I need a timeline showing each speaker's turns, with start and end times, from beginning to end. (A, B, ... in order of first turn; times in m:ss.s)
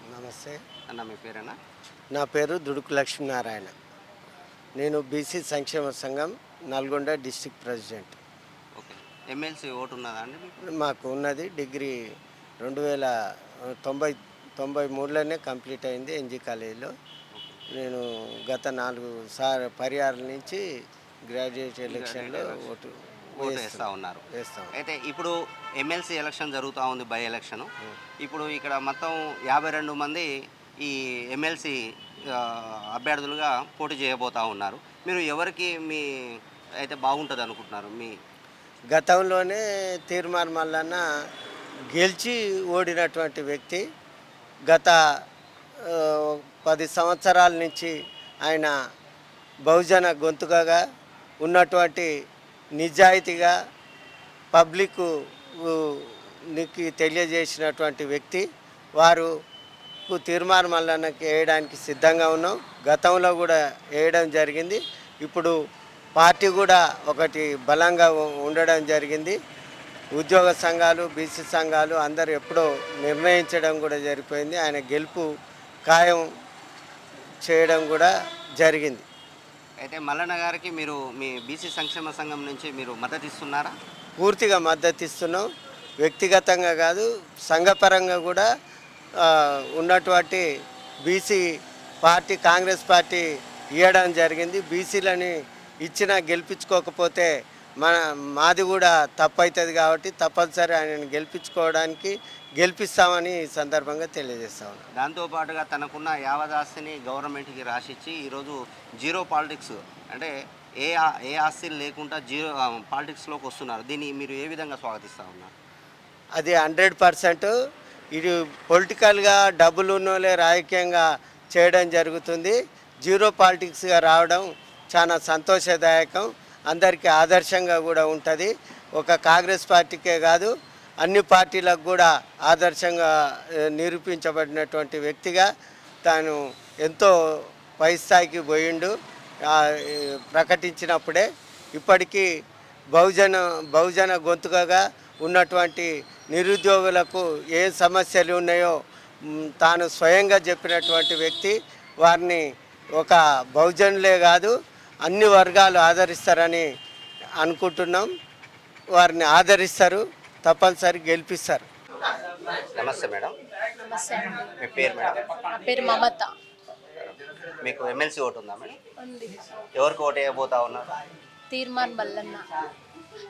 0:00.1-0:00.6 A
0:00.9-0:01.6 B
0:02.1-0:03.7 A
0:04.8-0:08.2 A
0:08.8-0:10.5 B
0:10.7-0:12.0 A
0:12.6-0:13.1 A
0:13.8-0:16.9 A
0:17.4-0:17.6 B
0:17.7-0:20.6 A
0:21.3-0:24.7 A
0:21.9-0:22.6 B
0:23.4-0:24.2 B
0:24.8-0:27.7 B
0:28.2-0:30.3 B
0:30.8-0:36.0 B
0:36.8-0:38.2 B
0:38.9-0:41.0 A
0:41.9-0:43.8 A
0:44.7-0:45.0 A
0:45.9-0:47.9 A
0:48.4-0:48.7 A
0:49.7-0:50.8 A
0:51.4-0:52.1 A
0:52.8-0:53.5 A
0:54.5-0:55.1 A
0:55.6-0:58.4 A
0:59.0-0:59.3 A
1:00.1-1:05.5 A
1:06.2-1:09.4 A
1:10.2-1:15.3 A
1:15.9-1:16.2 A
1:17.4-1:19.1 A
1:19.8-1:23.7 B
1:24.2-1:25.4 A
1:26.0-1:28.5 A
1:29.2-1:30.4 A
1:31.1-1:31.4 A
1:32.0-1:33.2 A
1:33.8-1:44.8 A
1:45.0-1:55.5 B
1:56.4-1:57.5 A
1:58.1-2:13.1 A
2:13.6-2:15.5 A
2:16.0-2:17.1 A
2:17.8-2:18.9 A
2:19.5-2:22.3 A
2:22.9-2:28.8 A
2:29.6-2:32.5 A
2:33.0-2:34.5 A
2:35.0-2:36.7 A
2:37.4-2:38.1 A
2:39.0-2:41.6 A
2:42.8-2:43.3 B
2:43.8-2:44.5 C
2:44.6-2:45.3 B
2:45.4-2:46.3 C
2:47.0-2:48.8 B
2:49.0-2:49.4 C
2:49.8-2:50.9 B
2:51.5-2:52.5 C